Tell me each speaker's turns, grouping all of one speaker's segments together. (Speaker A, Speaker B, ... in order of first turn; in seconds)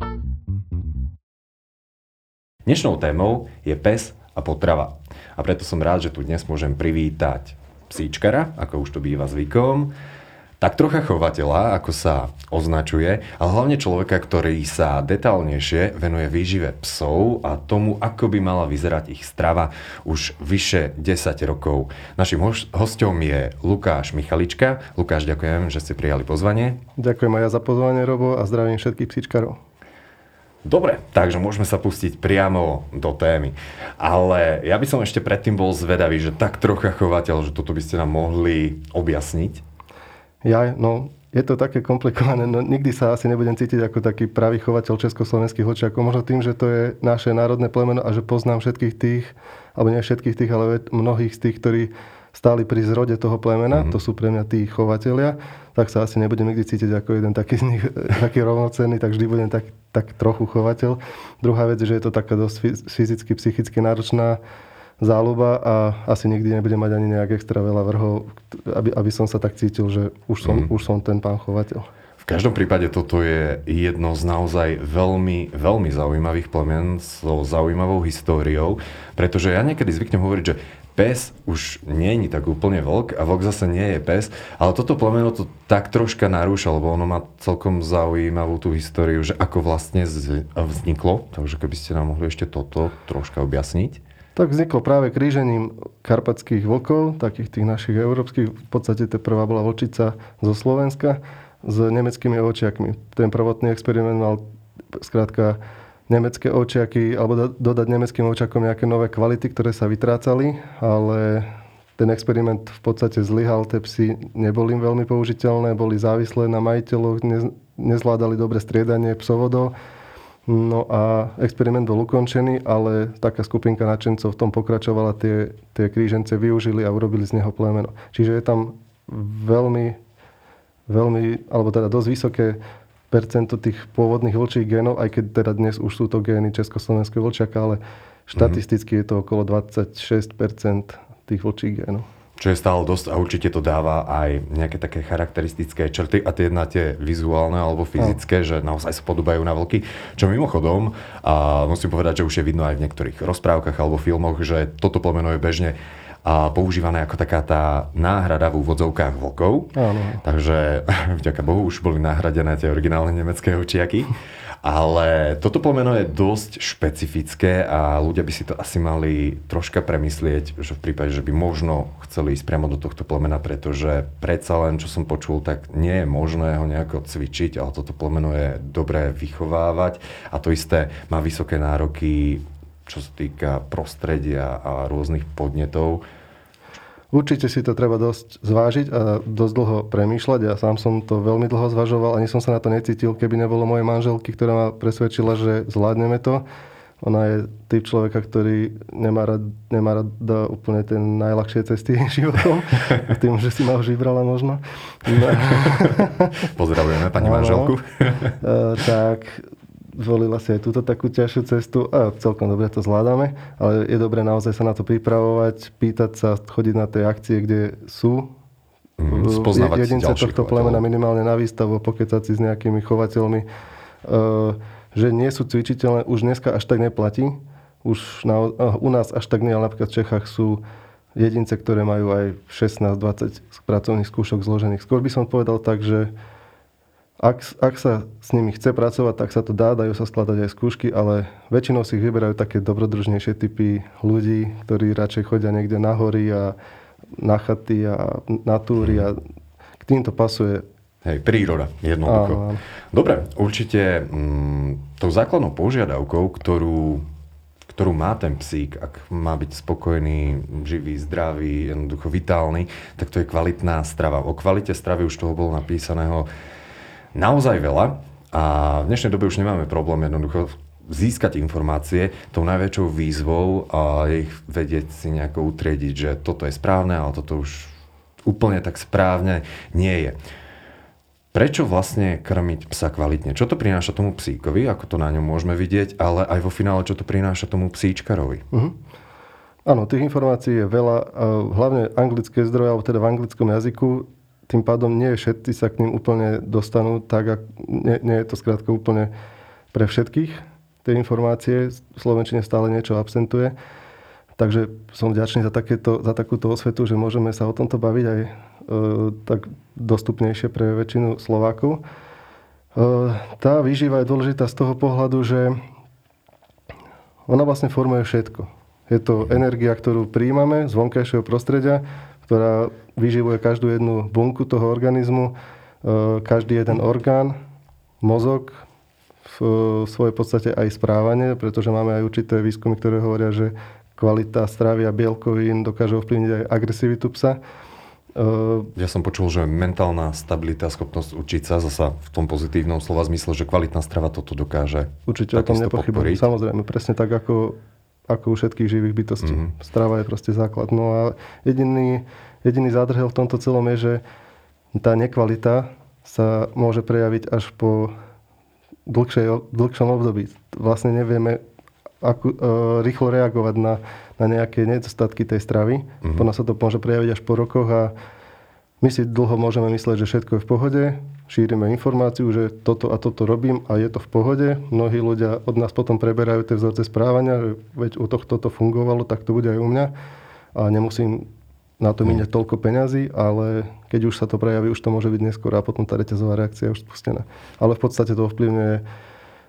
Speaker A: 2.7-9.9, 10.6-26.8, 30.6-39.6, 70.4-70.7, 72.2-94.0, 142.4-186.0, 206.4-208.4, 219.0-220.8, 248.8-249.1, 251.1-257.1, 257.7-266.3, 267.1-277.7, 278.2-280.2, 281.3-288.4, 338.8-346.3, 349.2-349.5
Speaker B: 27.0-29.6, 40.4-64.4, 65.0-71.9, 94.4-104.4, 104.9-119.7, 120.5-130.0, 130.9-132.6, 133.1-142.1, 159.8-160.2, 187.1-196.4, 197.0-206.5, 207.2-207.7, 208.4-218.3, 219.1-223.5, 224.0-230.6, 231.2-236.1, 237.2-246.6, 247.2-249.2, 249.8-250.7, 252.1-252.6, 289.6-299.1, 299.7-303.5, 304.4-311.8, 312.8-315.6, 317.3-327.4, 328.0-328.6, 329.2-337.4, 338.1-338.7, 345.1-347.6, 348.1-354.0, 354.7-357.9, 358.9-361.4, 362.0-367.9, 368.8-379.9, 380.6-381.3, 381.8-388.8